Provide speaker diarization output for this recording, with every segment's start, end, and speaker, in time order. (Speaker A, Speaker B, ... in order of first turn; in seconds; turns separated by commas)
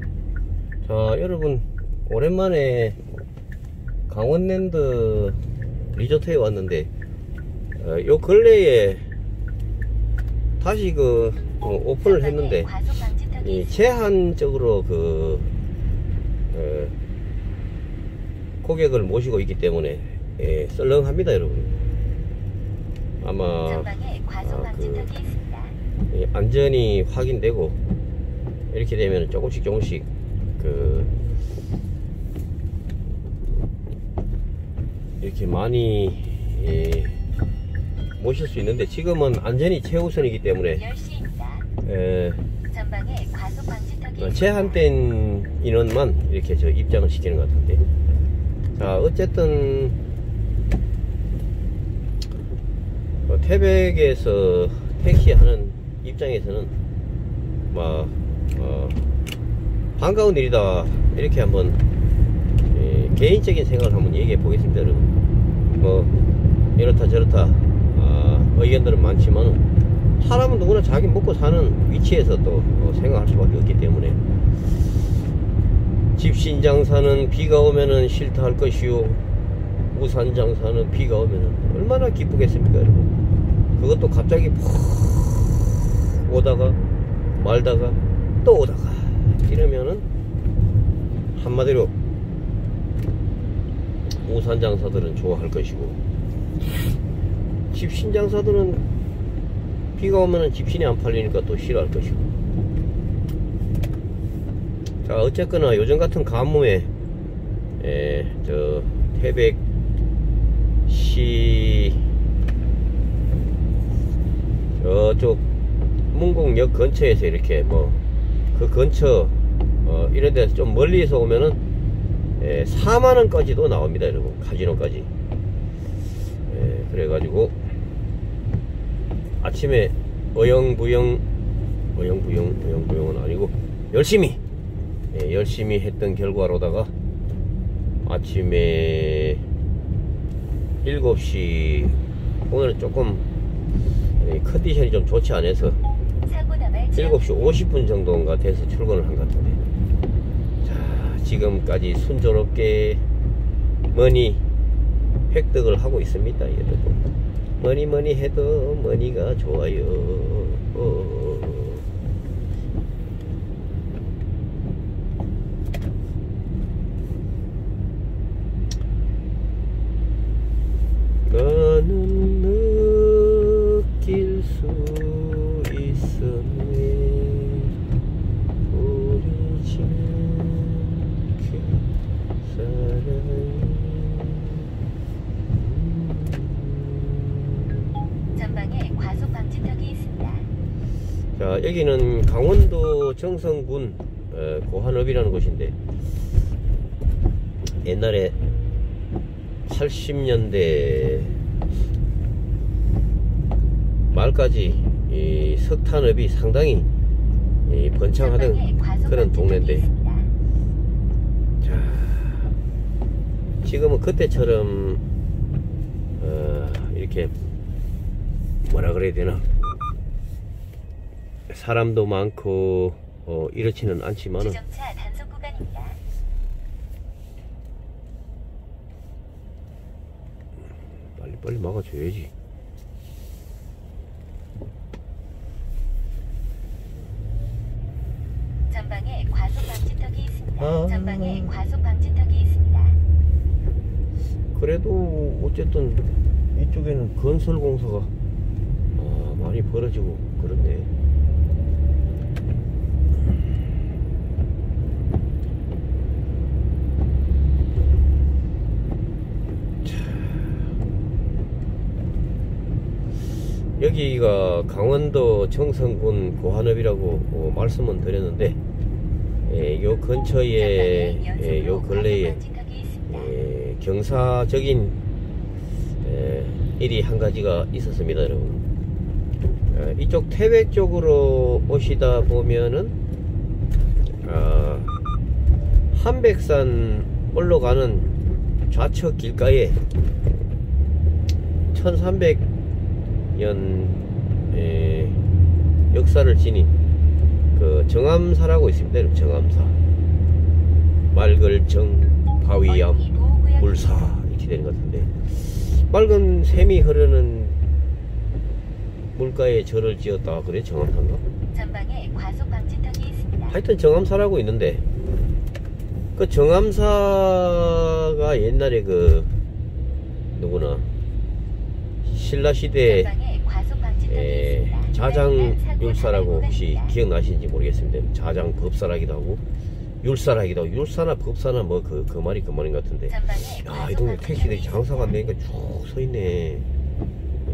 Speaker A: 0.8-3.0, Speaker A: 4.1-5.4, Speaker A: 5.9-6.9, Speaker A: 7.8-9.1, Speaker A: 10.6-12.8, Speaker B: 12.0-13.7, Speaker A: 13.4-15.5, Speaker A: 16.5-17.0, Speaker A: 18.6-21.8, Speaker A: 23.2-25.2, Speaker B: 23.8-25.7, Speaker A: 26.1-27.8, Speaker A: 28.7-31.2, Speaker A: 35.2-37.2, Speaker A: 38.2-40.9, Speaker B: 40.8-41.6, Speaker A: 41.8-42.4, Speaker B: 42.7-44.2, Speaker A: 44.1-47.8, Speaker A: 48.8-50.0, Speaker A: 53.3-56.7, Speaker A: 57.7-59.0, Speaker A: 60.0-61.8, Speaker A: 62.7-65.1, Speaker A: 65.8-66.1, Speaker A: 66.8-69.6, Speaker A: 70.2-74.2, Speaker A: 76.2-79.2, Speaker A: 79.9-83.1, Speaker A: 83.8-86.8, Speaker A: 87.4-90.0, Speaker A: 91.3-91.9, Speaker A: 94.2-96.0, Speaker A: 97.7-98.8, Speaker A: 100.0-102.3, Speaker A: 105.0-106.9, Speaker A: 107.8-109.6, Speaker A: 110.9-112.0, Speaker A: 114.8-115.4, Speaker A: 116.1-118.0, Speaker A: 118.5-121.6, Speaker A: 122.4-125.1, Speaker A: 126.5-127.6, Speaker A: 129.4-131.2, Speaker A: 131.9-134.4, Speaker A: 135.1-136.9, Speaker A: 138.1-139.4, Speaker A: 140.8-143.3, Speaker A: 144.2-145.8, Speaker B: 146.3-147.1, Speaker A: 146.9-149.6, Speaker A: 150.6-153.0, Speaker A: 153.9-154.4, Speaker A: 155.3-157.0, Speaker A: 157.6-161.8, Speaker A: 171.3-177.7, Speaker A: 178.7-181.9, Speaker A: 182.4-184.7, Speaker A: 185.5-187.9, Speaker B: 188.4-190.5, Speaker A: 191.4-195.8, Speaker A: 197.8-198.4, Speaker A: 199.7-201.4, Speaker A: 204.1-206.9, Speaker A: 207.7-209.9, Speaker B: 208.2-210.3, Speaker A: 211.6-212.5, Speaker A: 213.6-215.0, Speaker A: 216.2-217.3, Speaker A: 218.6-219.5, Speaker A: 221.5-224.6, Speaker B: 224.6-226.0, Speaker A: 231.2-232.3, Speaker B: 238.7-243.0, Speaker A: 240.6-241.6, Speaker A: 244.5-248.1, Speaker A: 248.9-250.9, Speaker A: 259.9-260.3, Speaker A: 263.8-268.6, Speaker A: 269.5-272.4, Speaker B: 270.7-273.1, Speaker A: 273.1-275.0, Speaker A: 276.0-278.6, Speaker A: 279.7-282.9, Speaker A: 284.2-284.9, Speaker A: 285.9-288.1, Speaker A: 288.7-289.8, Speaker A: 291.7-292.4, Speaker A: 293.4-295.2, Speaker A: 295.9-296.7, Speaker A: 297.6-299.8, Speaker A: 301.1-307.6, Speaker B: 302.9-303.6, Speaker A: 309.1-311.2, Speaker B: 311.5-313.5, Speaker A: 313.5-314.8, Speaker A: 316.2-319.3, Speaker A: 320.3-320.9, Speaker A: 322.1-323.1, Speaker B: 323.1-325.0, Speaker A: 324.1-329.4, Speaker B: 325.5-326.4, Speaker A: 330.0-336.7, Speaker B: 333.2-334.9